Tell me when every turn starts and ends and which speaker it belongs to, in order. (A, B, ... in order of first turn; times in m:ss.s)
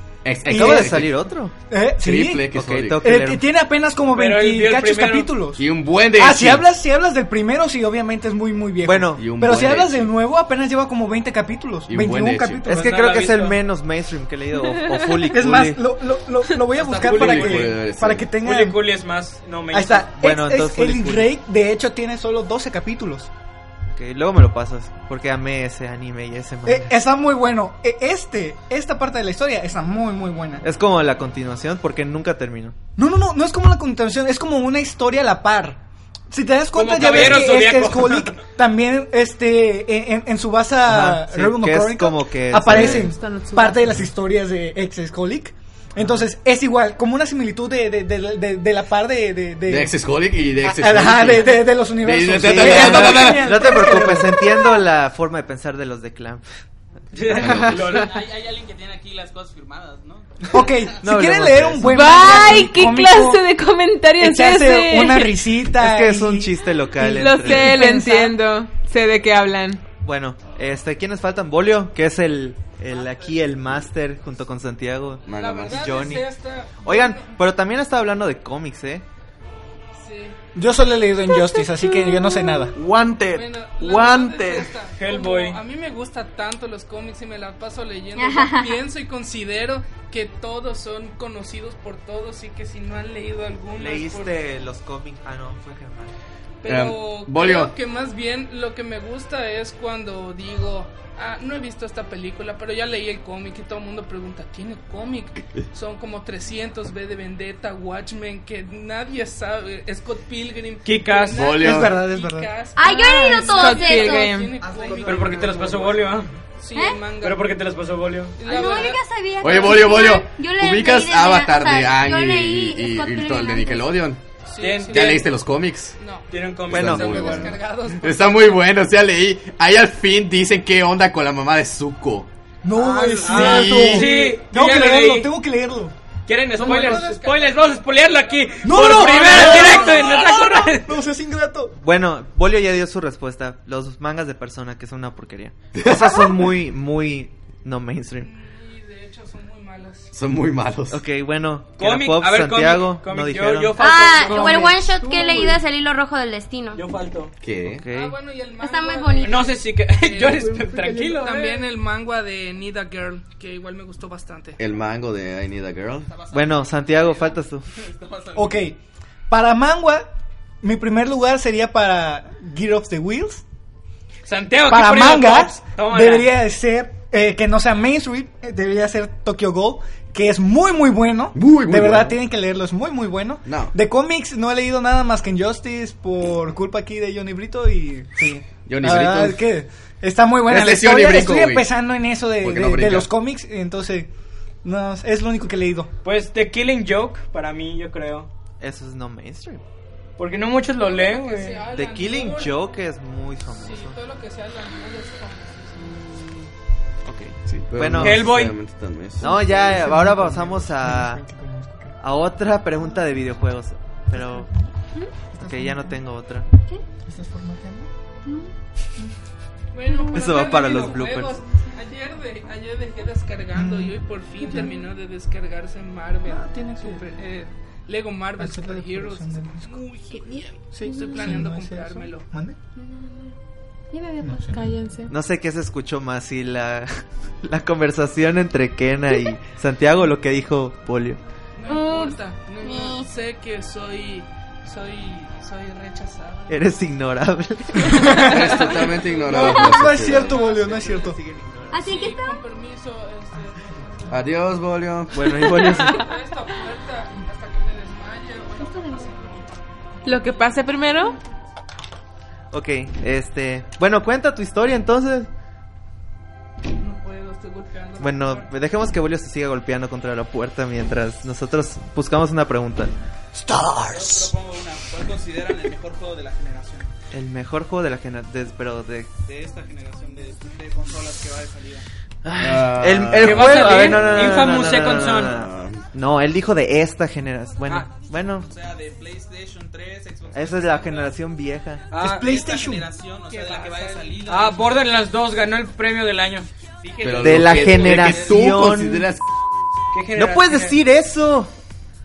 0:00.2-0:01.1 A
0:00.4-0:01.1 B
0:00.5-0:01.5 C
0:01.7-0:13.0 B
0:02.0-0:03.1 A
0:02.5-0:03.5 C
0:04.1-0:05.4 D
0:05.6-0:06.7 A
0:08.8-0:09.2 C
0:09.2-0:10.1 A
0:11.9-0:12.6 A
0:12.6-0:15.8 C
0:12.7-0:13.6 D
0:14.6-0:15.2 E
0:15.3-0:18.8 B
0:16.7-0:17.8 D
0:17.0-0:18.3 A
0:18.4-0:20.1 D
0:19.7-0:23.3 B
0:20.1-0:21.3 C
0:23.9-0:26.9 C
0:26.6-0:30.6 B
0:30.6-0:32.8 C
0:33.0-0:50.0 B
0:36.7-0:38.4 D
0:40.8-0:43.1 C
0:42.7-0:44.1 E
0:46.0-0:46.2 C
0:49.6-0:53.6 A
0:50.6-0:54.6 B
0:52.4-0:56.4 C
0:57.1-0:58.2 D
0:57.2-0:58.1 C
0:57.3-0:57.8 A
0:57.7-1:00.6 F
1:00.5-1:03.4 B
1:01.0-1:02.5 C
1:01.9-1:05.4 E
1:04.2-1:06.6 B
1:05.8-1:07.9 C
1:07.0-1:09.8 E
1:07.1-1:08.4 B
1:10.0-1:19.0 C
1:13.0-1:13.4 F
1:15.2-1:16.1 A
1:15.3-1:17.4 G
1:20.0-1:20.4 G
1:20.5-1:22.8 B
1:22.8-1:24.8 H
1:23.3-1:34.4 G
1:25.0-1:25.6 D
1:28.2-1:28.8 I
1:33.8-1:36.1 C
1:36.6-1:55.6 G
1:36.6-1:37.7 A
1:50.8-1:51.4 D
1:51.3-1:52.0 A
1:51.5-1:52.5 B
1:52.7-1:54.4 I
1:52.8-1:54.5 E
1:54.6-1:55.0 F
1:54.8-1:56.0 H
1:55.0-1:56.3 D
1:56.6-1:57.5 G
1:56.7-1:57.0 I
1:57.2-1:58.4 D
1:58.4-1:59.0 G
1:58.4-2:03.9 I
1:59.4-2:04.2 A
2:04.4-2:05.3 G
2:04.6-2:05.2 D
2:04.9-2:06.0 A
2:06.0-2:08.5 G
2:06.3-2:07.5 D
2:06.7-2:12.3 A
2:06.7-2:07.6 C
2:12.6-2:15.9 B
2:12.8-2:13.2 H
2:13.1-2:15.3 D
2:13.3-2:14.1 A
2:16.2-2:21.0 D
2:16.5-2:17.2 B
2:17.0-2:18.5 F
2:18.6-2:21.7 B
2:21.8-2:28.3 C
2:25.7-2:26.4 A
2:28.2-2:30.1 G
2:30.1-2:31.0 A
2:30.9-2:33.9 C
2:31.8-2:34.8 D
2:33.8-2:36.8 I
2:34.3-2:35.6 G
2:36.7-2:37.3 D
2:37.4-2:37.9 A
2:37.6-2:38.2 C
2:37.9-2:44.6 G
2:38.6-2:39.5 I
2:39.2-2:41.7 D
2:44.6-2:46.1 A
2:46.0-2:48.7 F
2:46.3-2:47.6 C
2:48.3-2:48.8 B
2:49.3-2:50.1 B
2:50.6-2:53.4 B
2:54.2-2:56.3 D
2:54.7-3:14.1 B
3:01.3-3:02.2 A
3:03.4-3:03.7 A
3:08.6-3:09.4 A
3:10.5-3:11.7 A
3:12.4-3:13.1 A
3:14.6-3:15.9 B
3:16.0-3:18.3 D
3:18.6-3:19.6 C
3:20.2-3:21.6 D
3:20.8-3:22.6 G
3:21.7-3:24.0 C
3:23.6-3:25.8 G
3:27.0-3:28.4 C
3:27.5-3:29.3 A
3:27.9-3:28.6 D
3:29.2-3:31.2 C
3:29.2-3:31.9 B
3:32.0-3:34.5 C
3:34.1-3:34.7 B
3:35.4-3:36.5 C
3:35.4-3:36.0 B
3:37.1-3:37.9 B
3:39.7-3:52.3 G
3:40.1-3:41.4 C
3:43.5-3:44.8 B
3:46.2-3:47.1 B
3:48.4-3:49.8 B
3:50.1-3:51.3 E
3:50.7-3:52.6 B
3:52.8-3:53.3 I
3:53.9-3:54.5 I
3:54.2-3:54.8 B
3:54.5-3:55.1 E
3:55.1-3:56.9 C
3:57.4-4:01.2 C
4:01.5-4:06.6 G
4:01.7-4:03.1 I
4:06.5-4:08.3 C
4:07.8-4:11.2 B
4:08.1-4:10.3 A
4:08.2-4:09.5 G
4:09.8-4:11.8 C
4:10.2-4:10.6 G
4:11.7-4:12.4 I
4:11.8-4:14.3 G
4:14.1-4:15.6 A
4:15.1-4:16.1 C
4:15.4-4:16.1 E
4:15.7-4:20.4 G
4:18.6-4:19.3 I
4:20.0-4:21.2 E
4:22.5-4:25.3 C
4:26.7-4:28.5 G
4:28.0-4:32.9 C
4:33.4-4:34.3 B
4:33.9-4:36.9 F
4:37.1-4:39.1 C
4:39.2-4:41.8 F
4:42.2-4:48.5 C
4:42.4-4:45.8 A
4:43.2-4:45.3 D
4:48.5-4:51.1 F
4:50.3-4:51.8 C
4:51.9-4:52.3 D
4:52.0-4:52.9 B
4:52.2-4:54.8 F
4:53.3-4:54.3 G
4:54.3-4:56.5 D
4:56.8-4:58.5 F
4:57.0-4:59.2 A
4:57.2-4:59.1 C
4:59.9-5:00.8 D
5:00.1-5:01.5 C